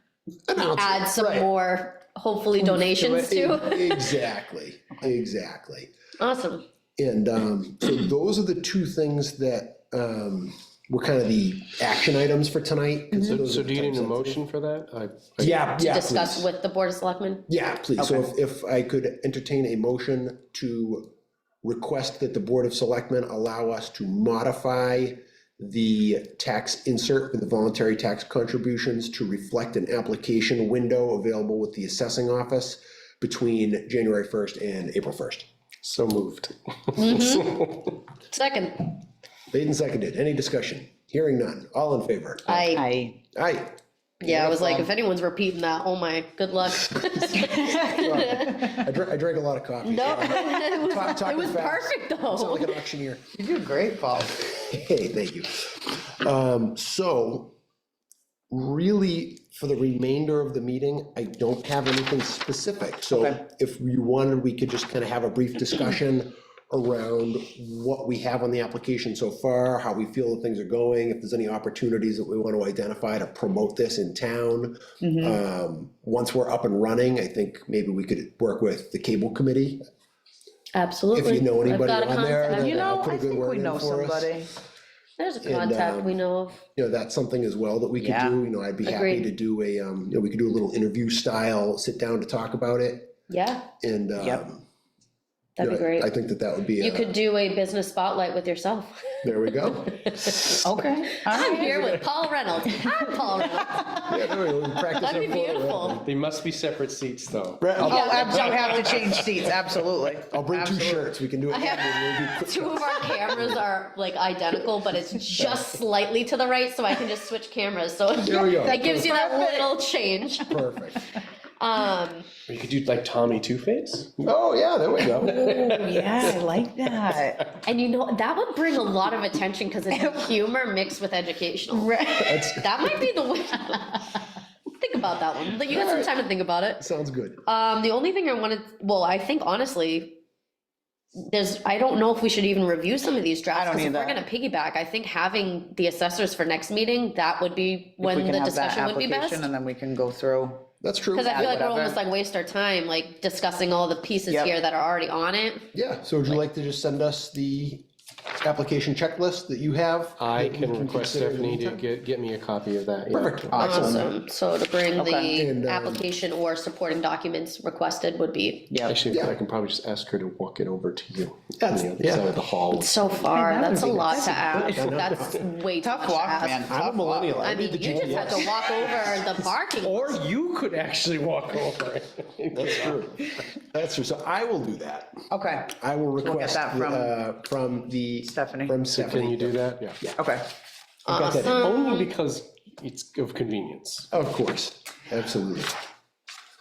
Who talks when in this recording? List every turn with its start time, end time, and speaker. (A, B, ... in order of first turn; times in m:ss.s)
0:00.5-0:01.5 A
0:00.8-0:04.2 B
0:02.9-0:05.9 A
0:06.2-0:06.6 B
0:07.0-0:14.4 A
0:13.2-0:15.7 C
0:15.4-0:16.5 A
0:15.8-0:17.5 B
0:17.5-0:21.1 A
0:18.0-0:18.3 D
0:21.6-0:35.5 A
0:35.8-0:37.7 C
0:37.0-0:39.0 B
0:39.5-0:42.8 A
0:42.5-0:42.8 B
0:42.7-0:43.2 D
0:43.3-0:44.9 A
0:44.2-0:48.7 B
0:47.8-0:53.3 A
0:49.8-0:52.8 B
0:53.4-0:54.4 D
0:54.3-0:57.6 A
0:58.5-1:19.8 A
1:15.0-1:15.4 D
1:20.7-1:22.9 B
1:21.1-1:24.4 A
1:22.5-1:24.5 D
1:25.2-1:26.6 B
1:25.4-1:26.2 A
1:26.8-1:33.1 A
1:28.0-1:28.4 D
1:28.8-1:29.3 B
1:33.3-1:33.7 B
1:33.8-1:34.7 A
1:34.2-1:34.4 D
1:35.6-1:36.1 B
1:35.6-1:37.1 A
1:36.8-1:39.3 B
1:39.2-1:40.4 A
1:39.9-1:40.6 B
1:40.6-1:42.1 D
1:41.2-1:46.0 B
1:44.1-1:46.1 A
1:46.0-1:49.4 C
1:47.6-1:48.2 A
1:47.8-1:49.0 B
1:47.8-1:51.1 D
1:50.3-1:53.7 A
1:51.5-2:01.0 B
1:55.4-1:55.6 A
1:58.2-1:59.2 A
1:58.7-1:59.7 D
2:00.5-2:01.0 A
2:01.6-2:02.3 B
2:02.5-2:04.2 C
2:04.2-2:05.8 A
2:05.2-2:06.4 C
2:05.2-2:07.4 D
2:07.6-2:16.8 B
2:11.7-2:12.4 D
2:12.2-2:13.0 A
2:15.7-2:16.1 A
2:16.8-2:17.4 A
2:17.4-2:20.2 B
2:21.2-2:29.5 B
2:23.5-2:24.2 D
2:28.0-2:30.7 D
2:30.8-2:31.6 A
2:31.1-2:35.7 B
2:31.3-2:32.0 D
2:35.7-2:37.9 A
2:38.4-2:41.8 A
2:40.2-2:44.0 C
2:43.1-2:44.1 A
2:43.6-2:48.7 B
2:45.0-2:45.4 D
2:45.4-2:46.0 A
2:48.7-2:49.0 D
2:48.9-2:53.4 C
2:51.6-2:52.3 A
2:52.7-2:56.8 B
2:53.3-2:55.2 D
2:53.9-2:55.4 A
2:55.8-2:57.4 D
2:56.7-2:59.2 A
2:57.4-3:00.2 B
2:59.8-3:03.1 C
3:02.5-3:05.1 A
3:05.3-3:07.2 D
3:05.7-3:10.2 A
3:08.2-3:08.8 D
3:08.9-3:10.0 C
3:10.2-3:10.4 D
3:11.1-3:12.1 B
3:11.1-3:11.7 A
3:11.6-3:14.1 C
3:14.1-3:15.8 A